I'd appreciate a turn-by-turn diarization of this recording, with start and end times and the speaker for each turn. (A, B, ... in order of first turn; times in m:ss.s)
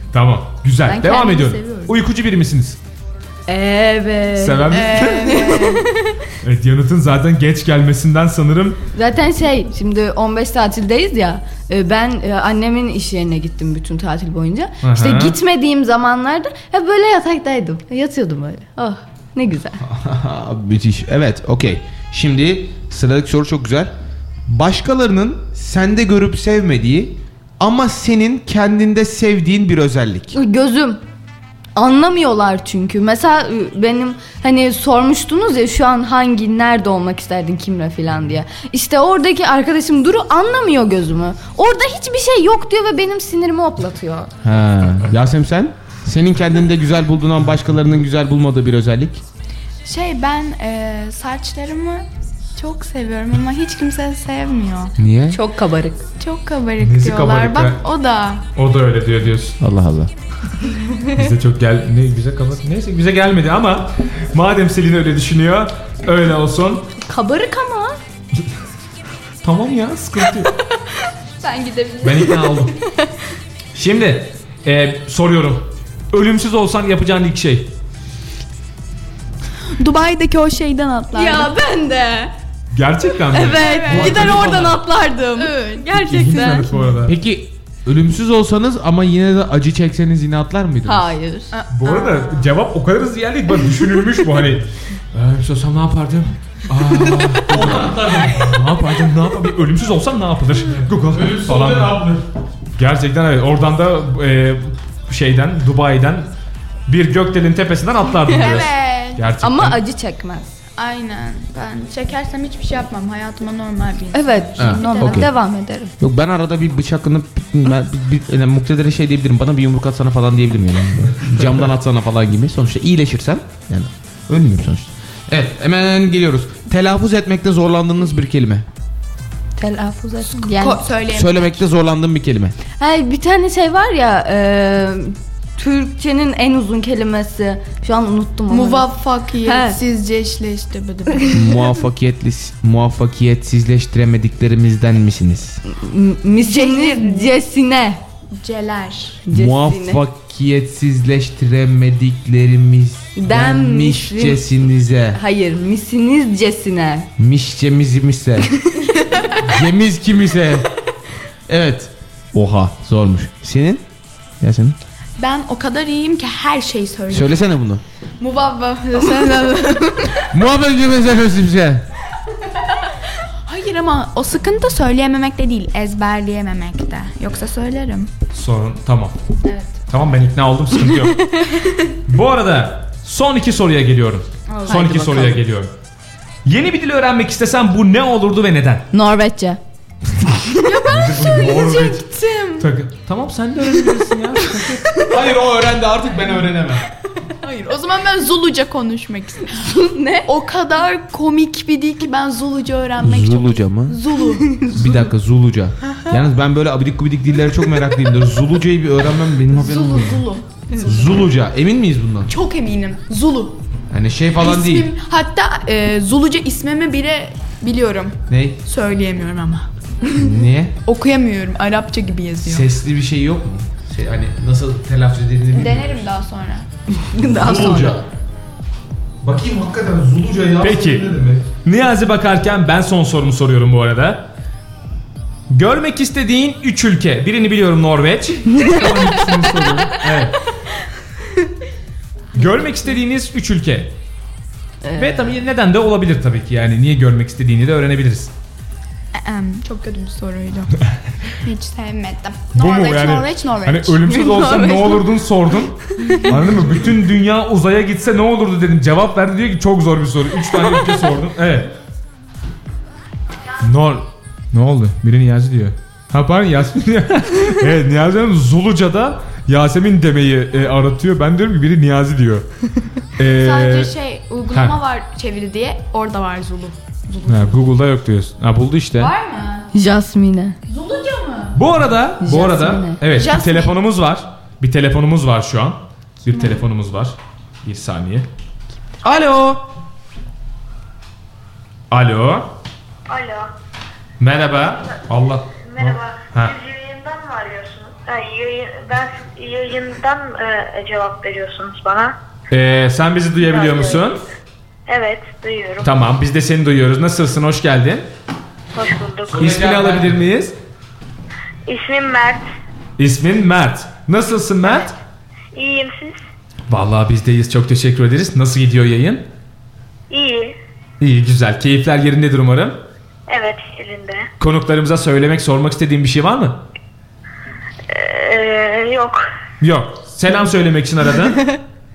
0:00.1-0:02.8 A
0:00.8-0:01.9 B
0:03.5-0:05.8 B
0:04.4-0:05.6 A
0:04.7-0:05.8 C
0:06.4-0:08.8 A
0:08.9-0:19.8 B
0:14.8-0:15.4 A
0:19.8-0:23.9 D
0:24.5-0:30.4 D
0:30.3-0:31.0 B
0:31.8-0:44.3 B
0:44.4-0:49.2 D
0:49.8-0:54.9 C
0:55.0-0:55.4 D
0:55.3-0:56.0 B
0:56.2-0:58.4 C
0:56.8-0:57.8 A
0:58.5-0:59.6 A
0:59.6-1:00.1 D
1:01.1-1:06.8 A
1:07.0-1:08.0 B
1:09.4-1:10.5 A
1:11.4-1:12.5 C
1:12.0-1:12.7 A
1:13.7-1:17.7 A
1:19.8-1:21.5 C
1:21.1-1:22.3 B
1:22.7-1:24.8 A
1:23.3-1:26.7 B
1:23.5-1:24.6 C
1:25.4-1:25.8 C
1:26.0-1:27.2 A
1:27.0-1:31.1 D
1:30.8-1:31.5 B
1:31.5-1:32.5 C
1:31.7-1:42.1 A
1:37.5-1:38.6 D
1:40.7-1:42.2 D
1:42.8-1:46.3 A
1:46.9-1:49.8 A
1:48.3-1:49.2 C
1:49.4-1:50.5 B
1:50.8-1:55.3 C
1:54.1-1:55.9 B
1:54.6-1:55.3 D
1:56.0-2:08.6 D
2:09.6-2:10.8 B
2:10.5-2:11.6 C
2:11.1-2:12.6 D
2:12.8-2:18.9 B
2:18.5-2:21.6 C
2:19.4-2:19.8 B
2:21.3-2:25.6 D
2:25.6-2:28.0 B
2:26.4-2:27.3 C
2:28.3-2:29.2 C
2:29.3-2:30.0 B
2:29.3-2:35.2 D
2:33.2-2:34.5 B
2:35.1-2:37.1 B
2:37.2-2:38.5 D
2:39.4-2:40.7 D
2:41.5-2:43.8 D
2:44.4-2:44.8 D
2:45.2-2:47.4 C
2:47.1-2:47.8 D
2:48.2-2:50.3 C
2:50.3-2:51.8 D
2:53.5-2:58.1 C
2:58.3-2:59.2 A
2:59.4-2:59.8 C
2:59.9-3:01.2 A
3:02.1-3:05.7 A
3:04.5-3:04.9 C
3:04.7-3:05.4 B
3:06.4-3:08.8 A
3:08.9-3:09.6 B
3:10.6-3:12.7 C
3:10.9-3:12.0 A
3:12.6-3:14.8 A
3:15.0-3:16.8 D
3:17.4-3:24.7 C
3:19.7-3:20.3 B
3:23.0-3:24.0 D
3:24.7-3:30.3 D
3:29.5-3:31.2 C
3:30.8-3:32.3 D
3:32.3-3:33.6 C
3:33.9-3:34.9 D
3:34.4-3:39.7 C
3:38.3-3:38.6 D
3:40.1-3:40.7 D
3:40.8-3:42.7 C
3:42.4-3:46.1 D
3:45.5-3:46.6 C
3:47.1-3:48.0 B
3:47.2-3:48.0 D
3:49.2-3:51.5 D
3:50.6-3:51.1 A
3:51.6-3:54.2 A
3:55.5-4:00.4 A
4:02.4-4:03.9 A
4:04.8-4:05.4 B
4:05.0-4:08.3 A
4:09.1-4:10.7 C
4:11.4-4:14.2 C
4:12.5-4:21.7 A
4:14.1-4:15.1 B
4:23.6-4:32.4 A
4:33.2-4:33.9 A
4:33.3-4:37.6 C
4:34.5-4:34.8 A
4:37.3-4:39.1 A
4:39.0-4:39.7 C
4:39.7-4:40.6 B
4:40.7-4:41.6 C
4:41.5-4:48.3 A
4:42.2-4:43.0 B
4:43.1-4:43.8 C
4:46.3-4:46.6 C
4:49.0-4:49.6 A
4:51.9-4:52.5 A
4:53.1-4:53.5 E
4:54.2-4:56.5 A
4:55.6-5:02.2 E
5:02.5-5:04.2 A
5:03.4-5:04.2 E
5:04.9-5:05.9 E
5:05.8-5:08.1 A
5:08.7-5:09.5 E
5:09.3-5:10.2 D
5:09.3-5:10.5 A
5:11.7-5:12.5 E
5:13.0-5:14.9 A
5:14.6-5:14.9 E
5:15.5-5:16.2 E
5:16.7-5:19.2 A
5:20.1-5:20.6 E
5:21.0-5:22.8 A
5:23.3-5:24.3 E
5:24.4-5:26.6 A
5:27.9-5:29.2 E
5:29.6-5:31.5 A